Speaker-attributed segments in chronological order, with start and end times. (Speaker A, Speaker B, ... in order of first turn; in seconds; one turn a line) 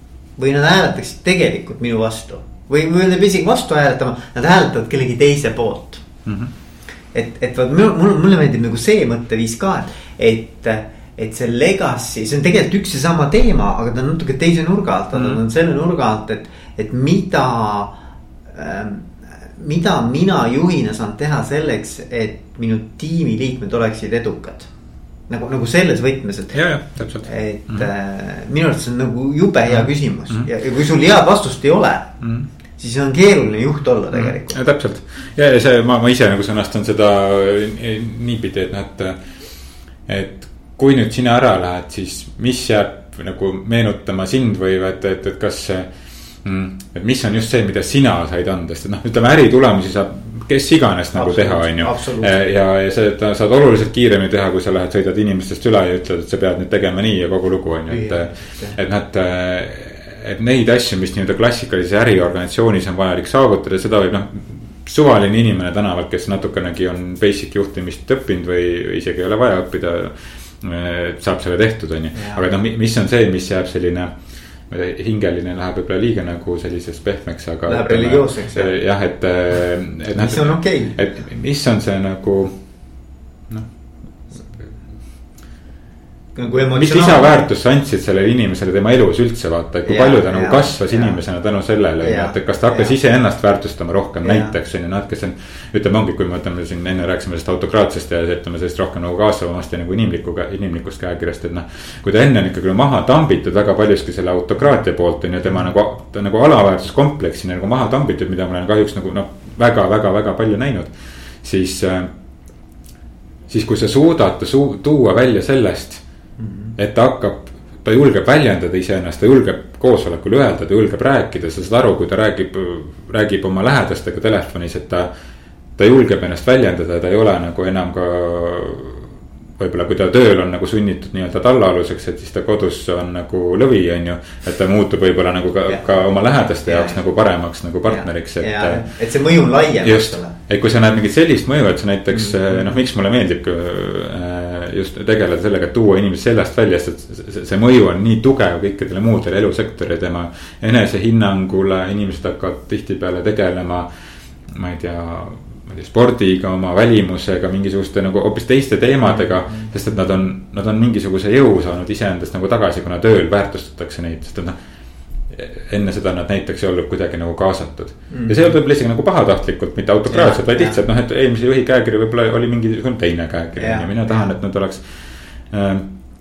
Speaker A: 0.4-6.1
Speaker B: 6.3-6.5
Speaker A: 7.1-24.7
Speaker A: 25.3-26.6
Speaker B: 26.5-27.9
Speaker A: 27.2-32.2
Speaker B: 29.7-30.5
Speaker B: 32.2-32.5
Speaker A: 32.8-34.6
Speaker B: 34.1-39.2
Speaker B: 40.1-45.9
Speaker B: 46.4-74.2
Speaker A: 51.1-52.3
Speaker A: 57.9-58.8
Speaker A: 72.1-72.5
Speaker B: 74.7-82.6
Speaker A: 77.7-78.8
Speaker A: 80.2-81.0
Speaker A: 86.4-87.4
Speaker B: 86.8-112.1
Speaker A: 89.9-91.2
Speaker A: 92.0-92.9
Speaker A: 94.2-94.5
Speaker B: 113.5-116.0
Speaker A: 116.4-116.8
Speaker B: 116.8-125.1
Speaker B: 125.8-138.9
Speaker A: 136.7-137.0
Speaker A: 137.9-140.4
Speaker B: 139.8-153.9
Speaker A: 142.1-142.8
Speaker B: 154.5-164.6
Speaker A: 159.1-159.7
Speaker B: 165.3-175.9
Speaker A: 168.1-168.5
Speaker A: 170.1-170.8
Speaker A: 173.6-174.3